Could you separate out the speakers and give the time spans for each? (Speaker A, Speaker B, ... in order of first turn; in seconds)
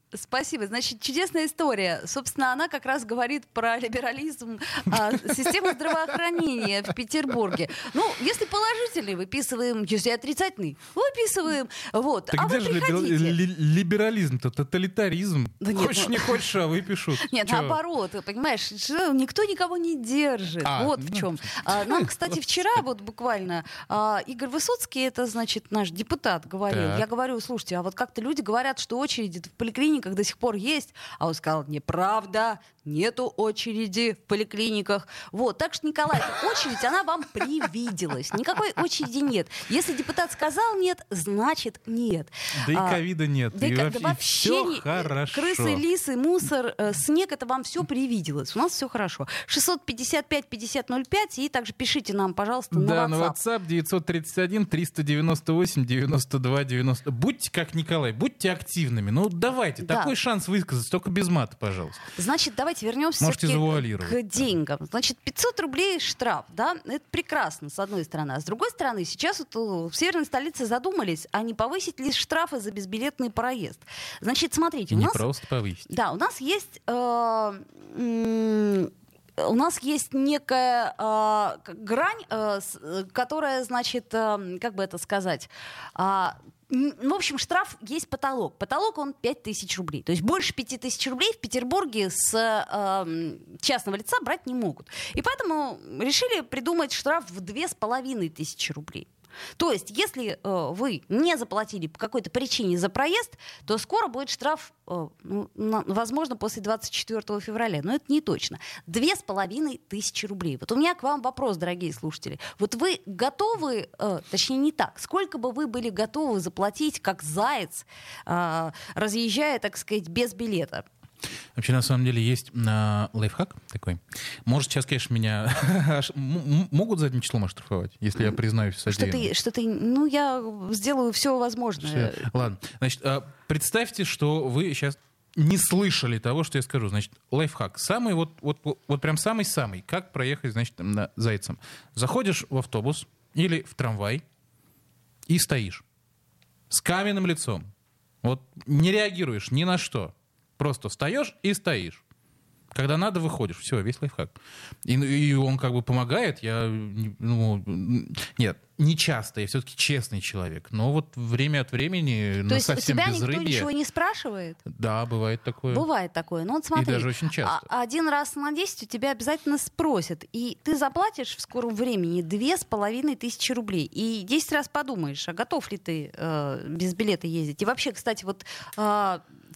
Speaker A: 0.1-13.4, 15.6-16.4, 17.2-43.0, 43.5-53.4, 59.8-60.1, 62.2-75.2, 75.9-120.9, 128.2-132.3, 162.5-164.6, 165.7-179.2
Speaker B: 5.1-5.6, 12.3-17.8, 20.6-22.8, 26.7-27.1, 42.6-45.8, 52.7-62.0, 63.2-64.2, 74.9-75.9, 121.5-129.3, 131.8-144.2, 145.3-145.8, 146.7-147.7, 148.2-152.0, 152.7-163.7, 164.7-165.9, 166.8-167.7